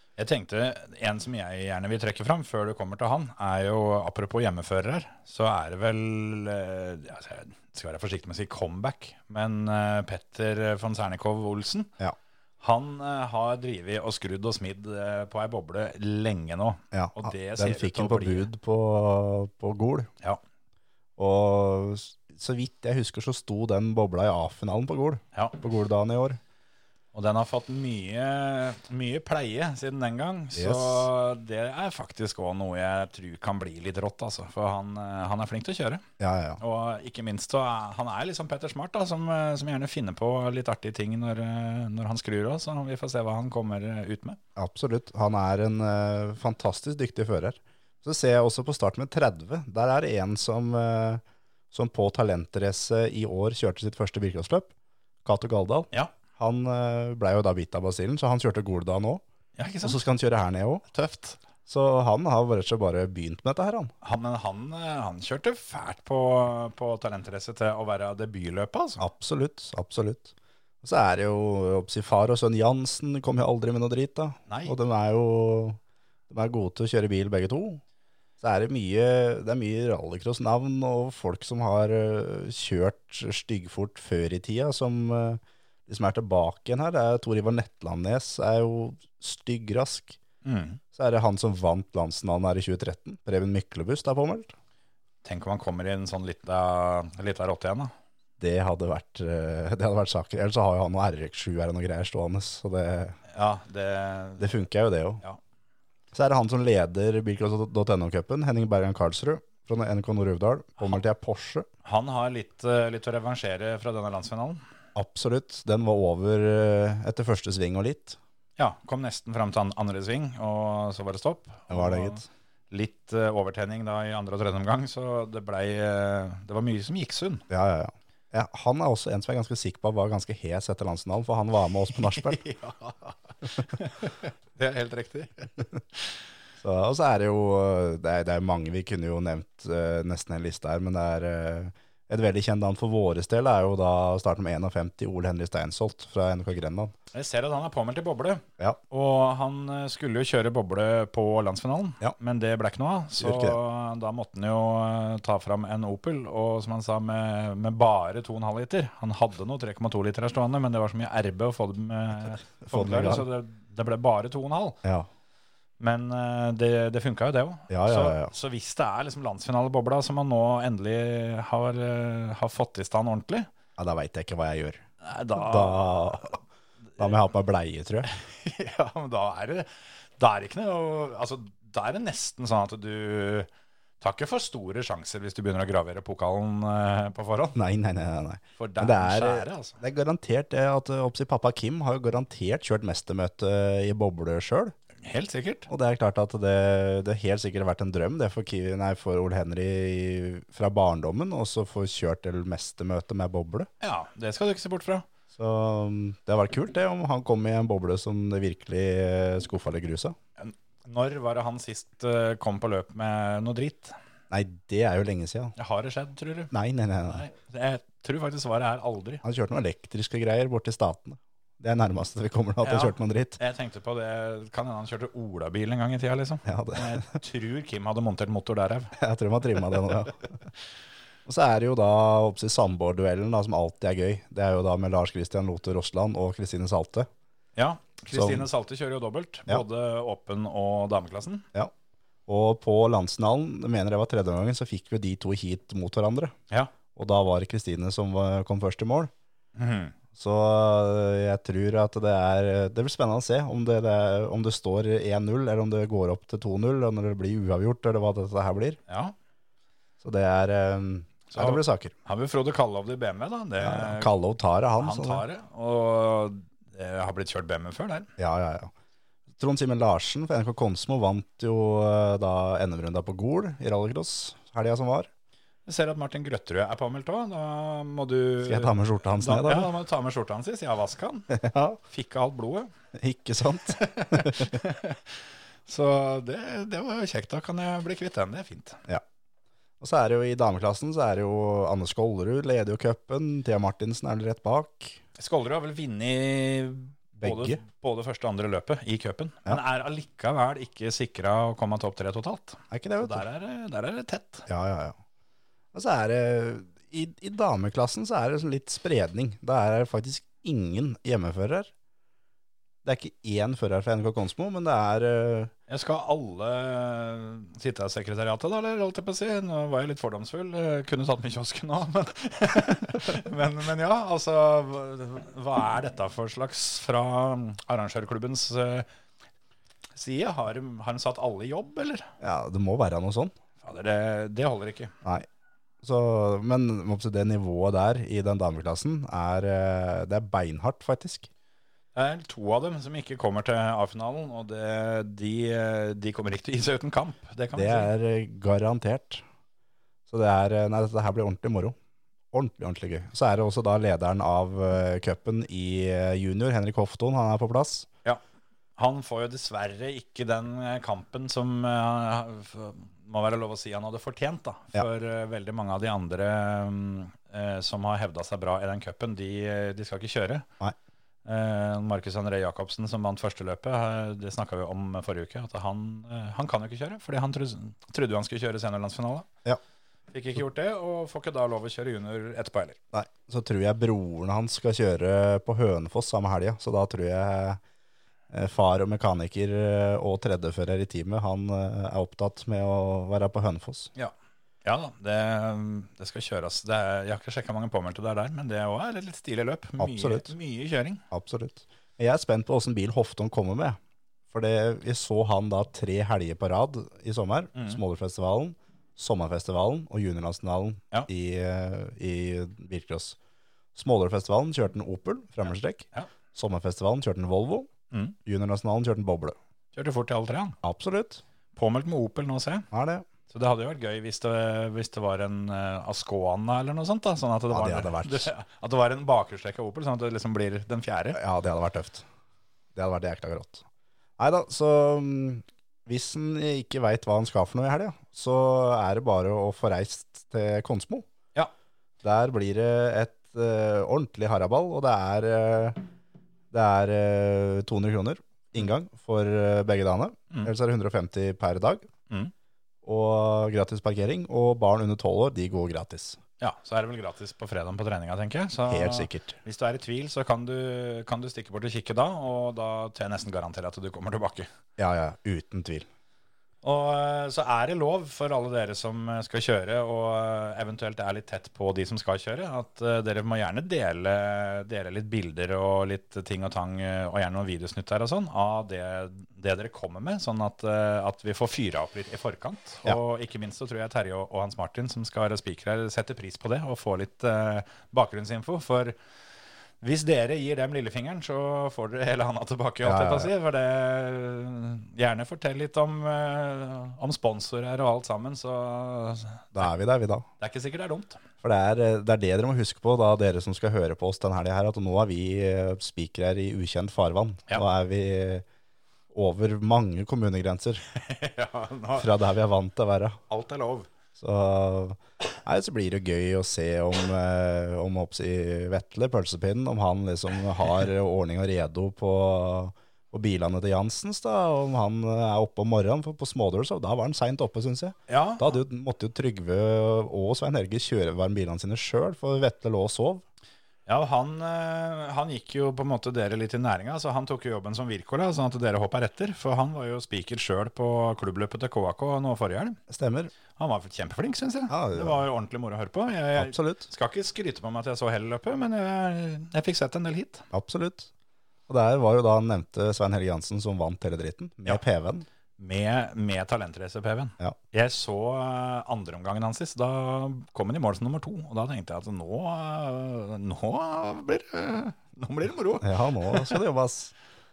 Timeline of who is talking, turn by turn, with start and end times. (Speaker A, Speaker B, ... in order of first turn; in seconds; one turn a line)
Speaker A: 0.2-11.9
Speaker A: 12.6-18.5
Speaker B: 16.9-20.1
Speaker B: 21.2-26.4
Speaker A: 27.1-36.0
Speaker B: 30.6-31.1
Speaker B: 36.2-36.6
Speaker A: 36.6-44.4
Speaker B: 44.6-54.7
Speaker B: 55.2-59.2
Speaker A: 59.6-60.0
Speaker B: 59.8-60.8
Speaker A: 60.9-61.4
Speaker B: 61.7-63.9
Speaker A: 64.0-69.0
Speaker B: 69.0-75.8
Speaker A: 74.5-74.8
Speaker B: 76.3-77.8
Speaker B: 78.4-90.2
Speaker A: 90.4-90.8
Speaker B: 90.9-94.5
Speaker A: 95.2-97.9
Speaker B: 98.4-103.2
Speaker A: 103.3-104.5
Speaker B: 104.4-105.2
Speaker B: 106.1-111.7
Speaker A: 111.8-114.6
Speaker B: 115.0-118.2
Speaker A: 118.6-127.4
Speaker B: 121.7-122.2
Speaker B: 127.5-132.4
Speaker A: 132.0-136.1
Speaker B: 136.6-146.9
Speaker A: 147.1-164.8
Speaker B: 153.2-153.6
Speaker B: 162.6-163.2
Speaker A: 165.8-173.5
Speaker B: 167.7-168.3
Speaker B: 173.8-174.8
Speaker A: 175.0-176.4
Speaker B: 175.3-176.4
Speaker B: 177.0-178.1
Speaker A: 178.1-183.5
Speaker A: 184.0-187.6
Speaker B: 187.6-194.7
Speaker A: 188.6-189.8
Speaker A: 195.0-195.7
Speaker B: 195.7-203.7
Speaker A: 203.8-205.1
Speaker B: 205.3-210.2
Speaker A: 210.4-213.9
Speaker B: 214.3-215.5
Speaker A: 215.6-216.5
Speaker B: 216.5-217.2
Speaker A: 217.1-219.2
Speaker B: 219.2-223.4
Speaker A: 222.6-228.9
Speaker B: 226.5-227.0
Speaker B: 229.0-230.3
Speaker B: 231.3-237.1
Speaker A: 237.6-241.5
Speaker B: 238.1-238.5
Speaker B: 242.3-246.3
Speaker B: 246.9-249.1
Speaker A: 249.6-249.9
Speaker B: 250.2-258.8
Speaker A: 258.9-259.1
Speaker B: 260.0-261.9
Speaker A: 261.3-264.1
Speaker B: 263.6-265.2
Speaker A: 264.8-268.1
Speaker B: 268.2-268.7
Speaker B: 269.4-275.1
Speaker A: 275.7-281.3
Speaker B: 278.4-279.7
Speaker B: 281.3-281.8
Speaker A: 281.9-282.7
Speaker B: 283.0-284.6
Speaker A: 283.7-288.8
Speaker B: 289.8-295.0
Speaker A: 295.2-304.5
Speaker B: 297.2-297.6
Speaker B: 302.7-303.2
Speaker B: 304.5-305.0
Speaker B: 305.7-311.7
Speaker B: 312.8-315.5
Speaker A: 315.7-328.9
Speaker A: 330.0-332.1
Speaker B: 332.2-333.3
Speaker A: 333.6-334.9
Speaker B: 335.8-341.3
Speaker A: 341.9-347.9
Speaker B: 347.5-349.2
Speaker B: 350.1-351.8
Speaker B: 352.3-357.9
Speaker A: 358.8-370.5
Speaker A: 371.2-379.3
Speaker A: 380.1-382.8
Speaker B: 382.9-387.6
Speaker B: 388.3-393.9
Speaker A: 394.6-401.0
Speaker B: 399.8-400.3
Speaker B: 401.1-403.8
Speaker B: 404.3-413.2
Speaker A: 407.6-407.8
Speaker B: 413.8-417.7
Speaker B: 418.2-419.4
Speaker A: 419.7-420.6
Speaker B: 420.6-421.2
Speaker A: 421.6-422.7
Speaker B: 422.7-423.1
Speaker A: 423.3-431.2
Speaker B: 427.5-428.3
Speaker B: 431.1-432.1
Speaker B: 432.8-433.6
Speaker B: 434.2-441.1
Speaker B: 442.0-445.8
Speaker B: 446.5-451.9
Speaker B: 452.8-456.2
Speaker A: 456.4-464.5
Speaker B: 458.7-459.4
Speaker B: 464.8-465.9
Speaker A: 466.6-489.0
Speaker A: 489.8-499.5
Speaker B: 492.8-493.3
Speaker B: 499.5-500.3
Speaker A: 500.4-501.2
Speaker B: 501.4-508.4
Speaker B: 509.1-510.8
Speaker A: 510.9-512.1
Speaker B: 512.0-513.2
Speaker A: 513.3-513.9
Speaker B: 514.2-533.2
Speaker A: 528.1-528.6
Speaker A: 533.9-542.8
Speaker B: 542.9-543.3
Speaker A: 543.6-550.5
Speaker B: 544.7-545.2
Speaker B: 546.4-546.9
Speaker B: 550.5-551.1
Speaker B: 551.7-555.3
Speaker A: 555.6-566.6
Speaker B: 565.8-567.1